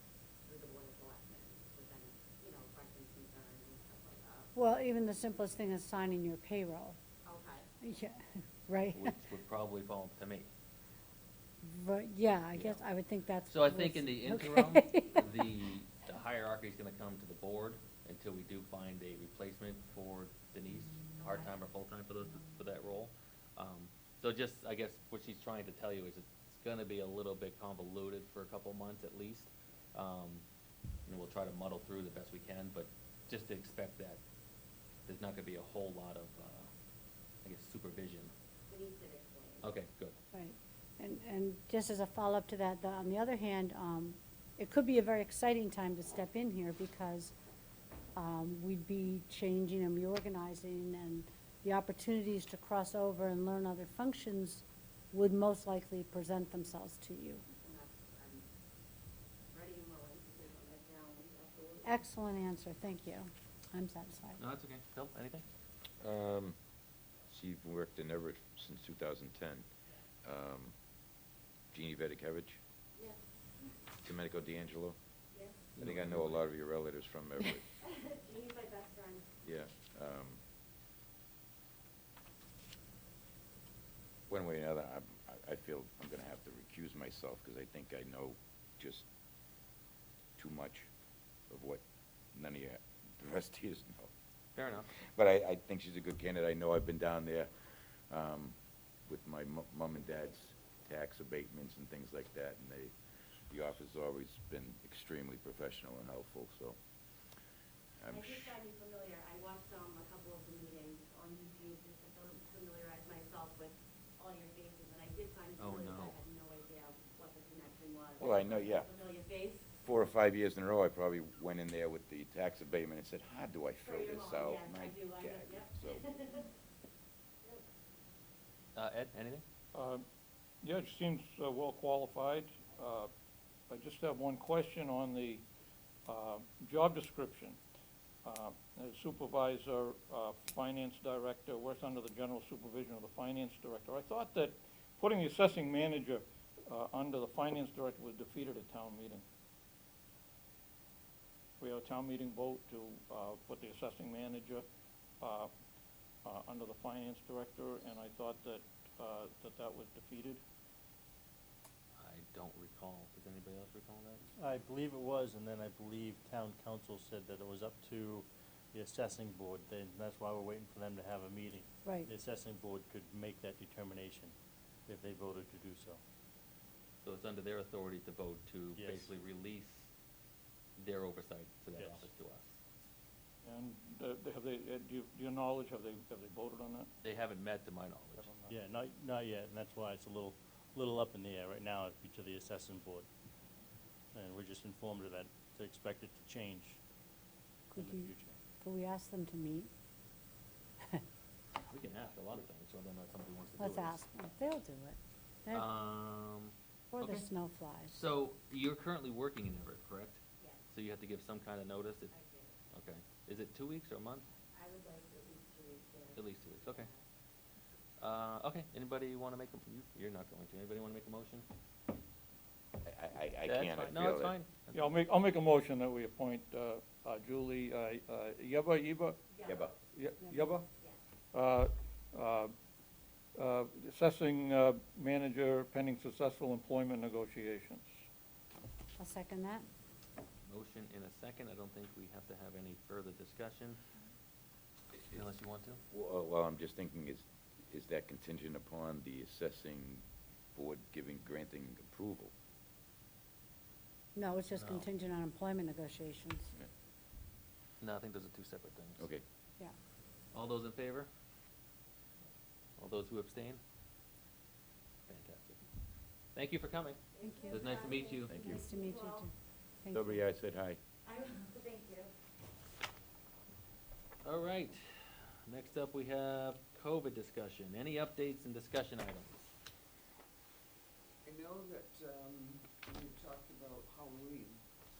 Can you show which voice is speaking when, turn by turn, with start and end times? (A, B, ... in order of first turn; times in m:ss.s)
0:00.4-0:04.5 A
0:04.5-0:07.0 B
0:07.2-0:07.7 A
0:07.8-0:09.2 B
0:09.0-0:10.5 C
0:11.6-0:15.4 B
0:12.5-0:12.8 C
0:13.4-0:30.4 C
0:21.2-0:21.5 A
0:31.1-0:34.2 C
0:35.1-0:36.7 C
0:37.4-0:38.3 C
0:38.7-0:39.7 A
0:39.6-0:40.2 C
0:40.3-0:47.3 B
0:48.1-0:57.4 B
0:57.6-0:58.4 A
0:59.5-1:02.0 A
1:01.8-1:04.4 B
1:04.4-1:05.4 C
1:06.0-1:06.6 D
1:07.3-1:09.6 D
1:10.2-1:10.7 D
1:11.7-1:12.6 D
1:14.0-1:15.0 D
1:15.3-1:15.6 A
1:15.8-1:16.4 C
1:15.8-1:17.6 D
1:17.8-1:19.3 A
1:19.4-1:20.4 D
1:24.3-1:29.0 D
1:30.4-1:30.9 D
1:31.5-1:31.8 D
1:32.3-1:34.1 D
1:34.6-1:34.9 C
1:35.0-1:37.5 D
1:38.1-1:38.5 D
1:39.1-1:42.9 D
1:43.5-1:46.8 D
1:48.0-1:48.6 D
1:48.1-1:59.7 A
1:55.6-1:56.2 C
1:58.2-1:58.9 D
1:59.8-2:06.0 D
2:03.8-2:06.5 A
2:08.7-2:09.4 C
2:09.7-2:10.0 E
2:10.6-2:13.1 E
2:13.7-2:15.4 E
2:16.1-2:17.6 E
2:18.2-2:29.2 E
2:31.6-2:34.6 E
2:35.2-2:35.5 E
2:36.2-2:40.4 E
2:42.0-2:44.2 C
2:44.4-2:54.3 F
2:51.8-2:52.1 B
2:54.9-2:56.0 F
2:57.0-2:59.9 C
2:58.8-2:59.1 F
3:00.8-3:02.5 C
3:01.8-3:02.0 F
3:03.4-3:06.9 E
3:07.0-3:08.3 C
3:08.1-3:08.6 E
3:08.5-3:13.1 F
3:14.1-3:16.8 F
3:17.7-3:19.7 B
3:17.8-3:18.4 F
3:21.7-3:24.0 C
3:23.6-3:25.7 B
3:25.5-3:27.3 C
3:26.9-3:28.0 B
3:27.9-3:32.1 C
3:32.1-3:32.6 A
3:32.7-3:34.3 C
3:34.5-3:37.0 A
3:36.1-3:36.9 C
3:38.0-3:41.4 C
3:42.8-3:44.3 D
3:43.4-3:44.9 C
3:44.7-3:49.2 E
3:49.3-3:49.7 A
3:49.4-3:49.7 D
3:49.9-3:50.7 E
3:51.3-3:52.5 E
3:53.4-3:57.9 E
3:59.0-3:59.7 B
4:00.4-4:03.8 C
4:04.9-4:05.8 C
4:05.9-4:10.0 D
4:10.5-4:12.3 D
4:14.1-4:16.5 B
4:14.5-4:14.9 C
4:17.8-4:19.1 C
4:19.0-4:19.2 D
4:20.3-4:21.1 C
4:22.8-4:23.6 C
4:25.1-4:25.6 C
4:26.3-4:28.4 C
4:27.2-4:29.2 A
4:27.2-4:27.7 B
4:28.2-4:28.6 D
4:28.5-4:30.2 B
4:29.9-4:30.8 D
4:31.1-4:32.1 A
4:34.2-4:34.8 C
4:35.4-4:39.4 C
4:41.2-4:44.8 G